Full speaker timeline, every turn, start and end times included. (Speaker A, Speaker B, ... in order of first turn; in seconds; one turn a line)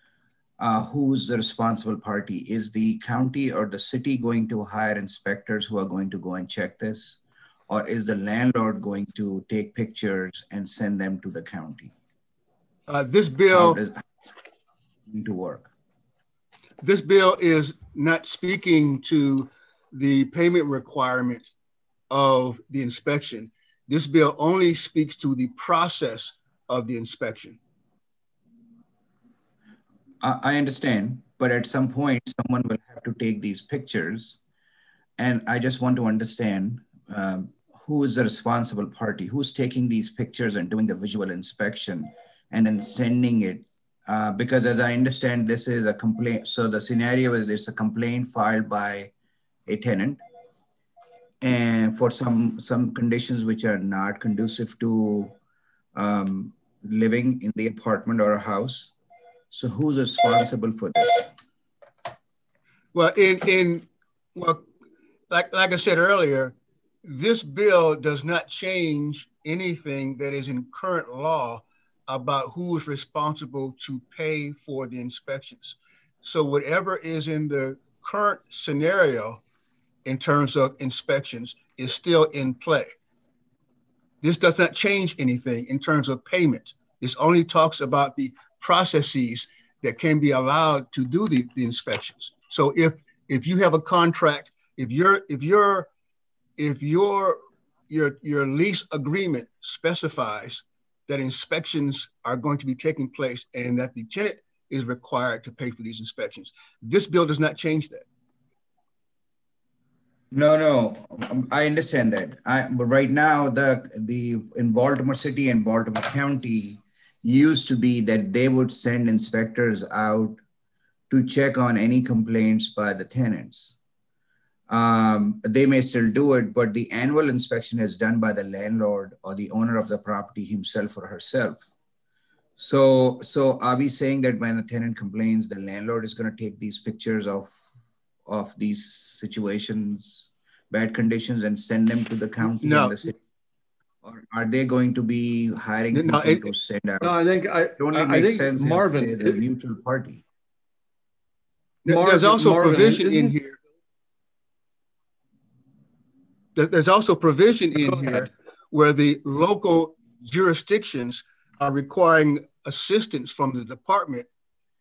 Speaker A: 0.6-11.9
Speaker B: 12.9-13.8
Speaker A: 13.5-14.0
Speaker A: 15.1-15.7
Speaker B: 16.8-21.5
Speaker B: 22.1-27.6
Speaker A: 30.2-34.4
Speaker A: 35.2-49.1
Speaker A: 49.6-50.2
Speaker A: 51.4-55.3
Speaker A: 55.9-58.9
Speaker A: 59.5-61.3
Speaker B: 62.9-64.7
Speaker B: 65.3-79.4
Speaker B: 80.0-82.9
Speaker B: 84.2-95.9
Speaker B: 96.6-97.4
Speaker B: 97.9-108.0
Speaker A: 110.3-120.4
Speaker A: 121.1-123.8
Speaker A: 124.7-131.7
Speaker A: 132.6-137.5
Speaker A: 138.2-143.2
Speaker B: 142.6-143.0
Speaker A: 144.0-147.2
Speaker B: 145.9-146.4
Speaker C: 147.0-149.4
Speaker A: 147.8-150.2
Speaker B: 151.8-153.6
Speaker C: 151.9-153.3
Speaker B: 156.5-164.3
Speaker C: 157.8-158.3